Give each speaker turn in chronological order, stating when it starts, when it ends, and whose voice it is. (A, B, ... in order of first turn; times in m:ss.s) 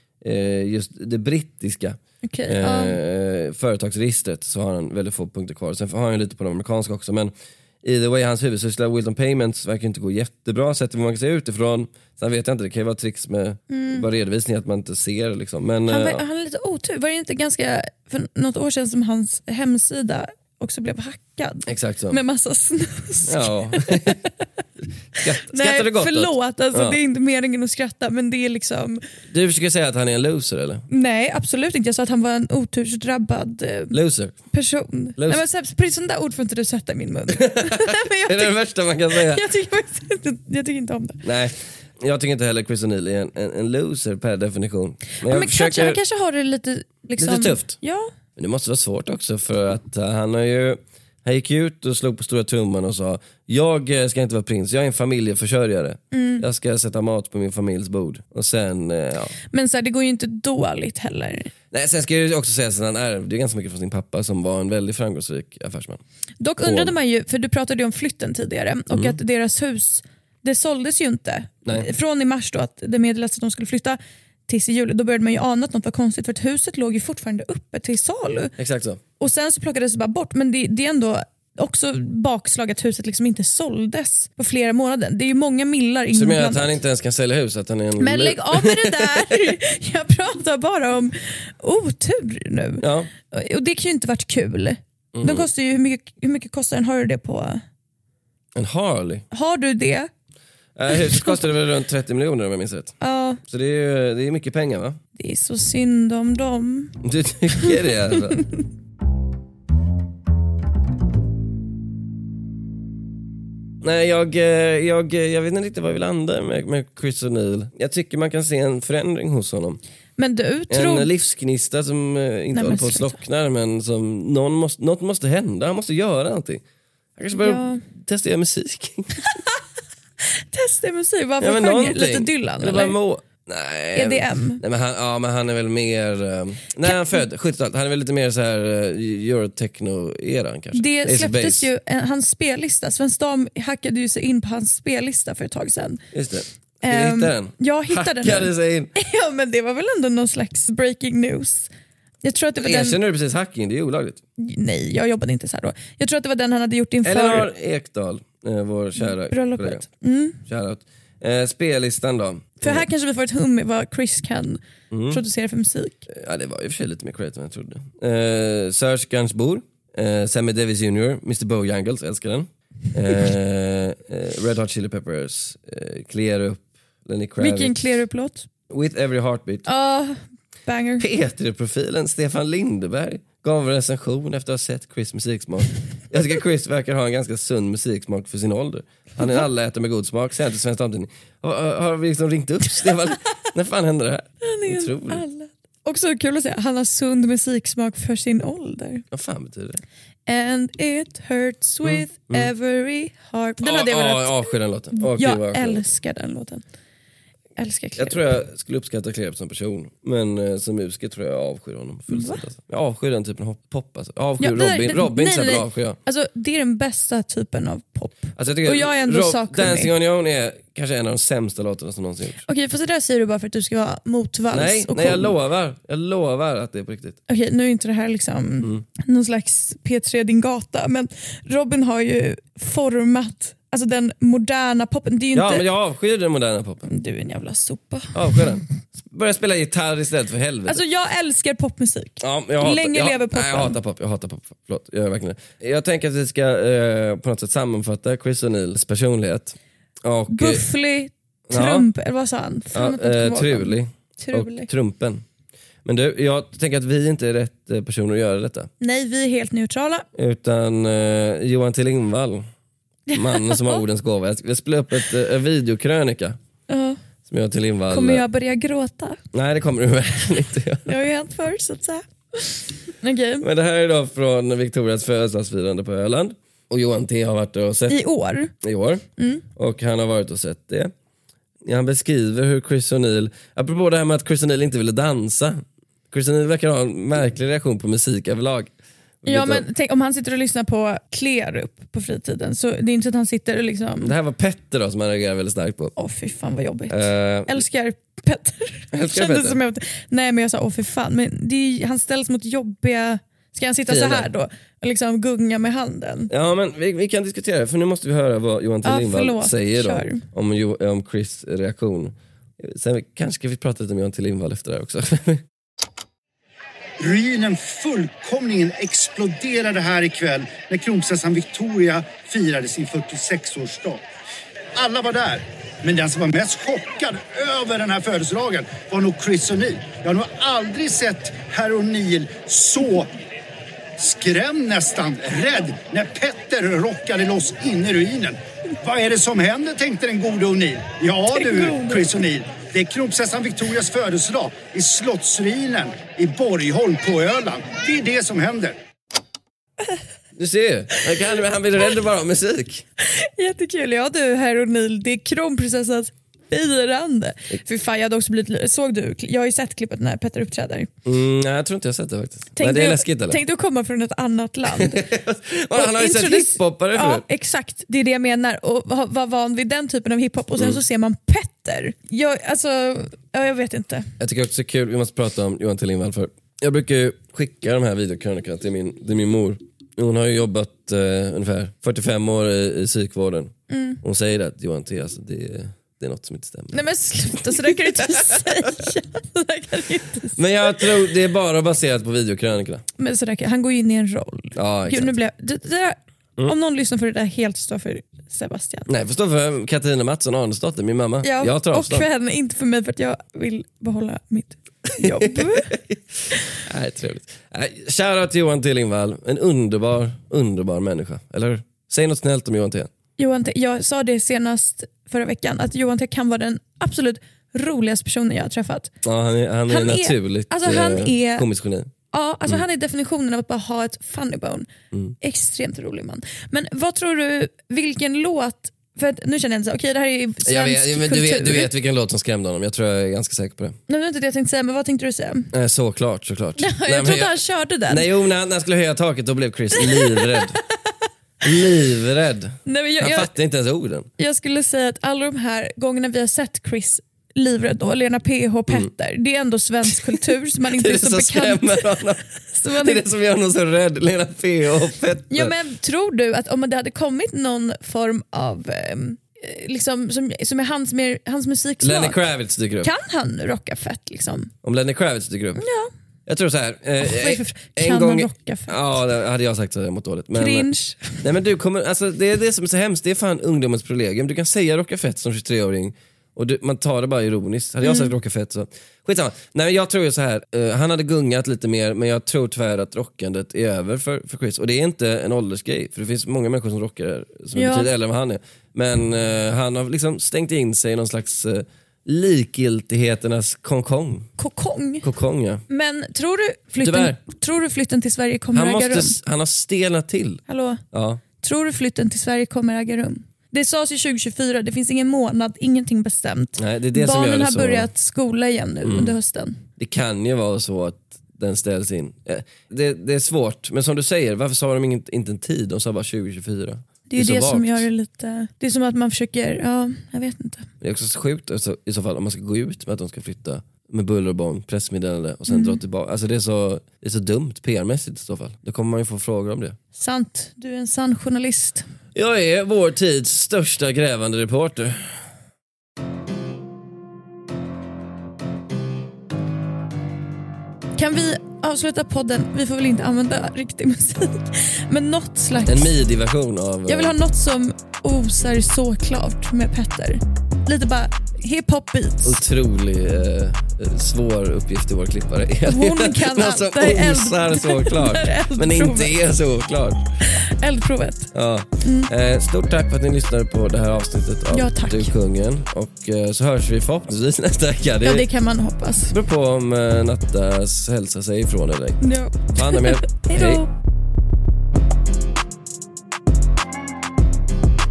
0:00.2-0:16.2 A
0:02.2-0:03.0 B
0:13.7-0:14.1 B
0:15.9-0:24.2 B
0:21.7-0:22.2 A
0:23.2-0:24.2 A
0:25.2-0:27.0 A
0:25.2-0:29.0 B
0:29.3-0:30.8 A
0:30.9-0:34.0 B
0:33.9-0:34.3 A
0:34.5-0:38.5 B
0:35.2-0:35.4 A
0:37.3-0:39.4 A
0:39.1-0:41.2 B
0:41.2-0:46.0 A
0:45.2-0:48.1 B
0:47.2-0:47.8 A
0:48.4-0:59.3 A
0:56.1-0:56.4 B
0:59.5-1:01.5 B
1:01.7-1:06.0 A
1:06.4-1:18.5 B
1:06.6-1:06.9 A
1:08.9-1:09.2 A
1:18.6-1:19.0 A
1:19.2-1:26.8 B
1:26.1-1:29.5 A
1:28.0-1:37.6 B
1:32.8-1:33.1 A
1:35.1-1:35.5 A
1:38.5-1:39.2 A
1:39.3-1:40.1 B
1:40.8-1:45.0 A
1:43.0-1:43.4 B
1:45.2-1:46.9 B
1:47.0-1:48.4 A
1:53.8-1:59.8 A
2:00.2-2:01.1 B
2:00.7-2:06.6 A
2:02.5-2:03.2 B
2:07.2-2:09.1 A
2:07.3-2:07.8 B
2:10.5-2:13.0 B
2:11.4-2:21.7 A
2:13.9-2:14.6 B
2:20.7-2:26.0 B
2:26.1-2:28.9 A
2:26.8-2:31.7 B
2:32.2-2:33.0 B
2:32.6-2:34.2 A
2:34.4-2:37.5 B
2:37.0-2:39.8 A
2:39.0-2:40.4 B
2:40.4-2:42.9 A
2:42.6-2:46.1 B
2:44.9-2:45.2 A
2:46.1-2:58.0 A
2:57.4-2:58.5 B
2:58.7-2:59.6 A
2:59.6-3:01.0 B
3:01.0-3:15.2 A
3:14.4-3:19.0 B
3:19.1-3:19.8 A
3:20.3-3:26.6 B
3:21.8-3:22.5 A
3:23.6-3:25.9 A
3:27.6-3:28.3 B
3:28.0-3:36.0 A
3:32.1-3:32.4 B
3:34.4-3:39.9 B
3:38.4-3:42.4 A
3:42.4-3:45.3 B
3:44.5-3:47.2 A
3:47.3-3:55.6 B
3:55.3-3:56.9 A
3:56.8-3:58.5 B
3:58.1-4:00.8 A
4:00.7-4:03.8 B
4:02.2-4:10.6 A
4:10.3-4:14.7 B
4:11.5-4:11.9 A
4:12.7-4:15.2 A
4:15.8-4:18.7 A
4:18.8-4:20.0 B
4:20.1-4:22.5 A
4:23.1-4:23.8 B
4:23.1-4:26.4 A
4:26.7-4:27.0 B
4:27.3-4:28.2 A
4:27.9-4:29.2 B
4:29.3-4:31.0 A
4:30.8-4:33.4 B
4:33.4-4:38.0 A
4:37.9-4:38.5 B
4:38.6-4:39.0 A
4:39.2-4:39.4 B
4:39.5-4:40.9 A
4:41.6-4:48.7 A
4:49.2-4:49.6 A
4:49.2-4:54.1 B
4:54.0-4:55.9 A
4:56.0-5:06.3 B
4:56.9-4:57.6 A
4:58.9-4:59.6 A
5:03.9-5:04.3 A
5:06.3-5:15.4 A
5:08.8-5:10.2 B
5:17.0-5:24.0 C
5:24.7-5:33.1 C
5:34.0-5:48.8 C
5:41.3-5:42.1 B
5:50.4-5:52.8 A
5:53.0-6:00.9 B
6:01.0-6:03.4 A
6:02.6-6:05.0 B
6:04.6-6:07.2 A
6:05.7-6:14.1 B
6:14.2-6:28.7 A
6:23.7-6:24.0 B
6:26.7-6:30.9 B
6:30.3-6:32.8 A
6:33.0-6:38.9 B
6:34.6-6:35.1 A
6:38.9-6:42.1 A
6:41.2-6:45.7 B
6:45.0-6:46.0 A
6:46.6-6:52.9 A
6:53.2-6:58.9 B
6:59.0-7:01.9 A
6:59.7-7:01.5 B
7:02.1-7:04.7 B
7:05.2-7:11.7 B
7:10.4-7:13.8 A
7:13.9-7:15.5 B
7:15.5-7:20.6 A
7:16.6-7:18.1 B
7:19.8-7:20.2 B
7:21.4-7:24.1 A
7:22.6-7:23.3 B
7:24.2-7:31.9 B
7:30.1-7:35.5 A
7:32.5-7:33.0 B
7:35.3-7:42.2 B
7:41.8-7:42.9 A
7:42.8-7:44.5 B
7:44.6-7:45.6 A
7:45.6-7:45.9 B
7:46.2-7:50.7 A
7:47.0-7:48.8 B
7:50.3-7:51.2 B
7:51.2-8:14.3 A
7:57.8-7:58.1 B
8:07.5-8:07.9 B
8:14.4-8:15.1 B
8:15.0-8:15.6 A
8:15.7-8:19.2 B
8:16.8-8:17.2 A
8:18.5-8:20.4 A
8:20.5-8:20.8 B
8:20.9-8:21.2 A
8:21.4-8:29.6 B
8:26.6-8:27.9 A
8:28.8-8:29.1 A
8:29.8-8:37.9 A
8:37.1-8:40.7 B
8:40.8-8:49.8 A
8:45.5-8:45.8 B
8:49.9-8:51.9 B
8:52.1-8:55.2 A
9:01.0-9:05.9 B
9:05.6-9:07.1 A
9:06.9-9:12.4 B
9:12.2-9:20.1 A
9:15.6-9:19.2 B
9:20.2-9:21.3 B
9:21.3-9:28.2 A
9:21.8-9:22.1 B
9:24.5-9:25.2 B
9:28.0-9:29.1 B
9:29.1-9:33.6 A
9:32.0-9:33.7 B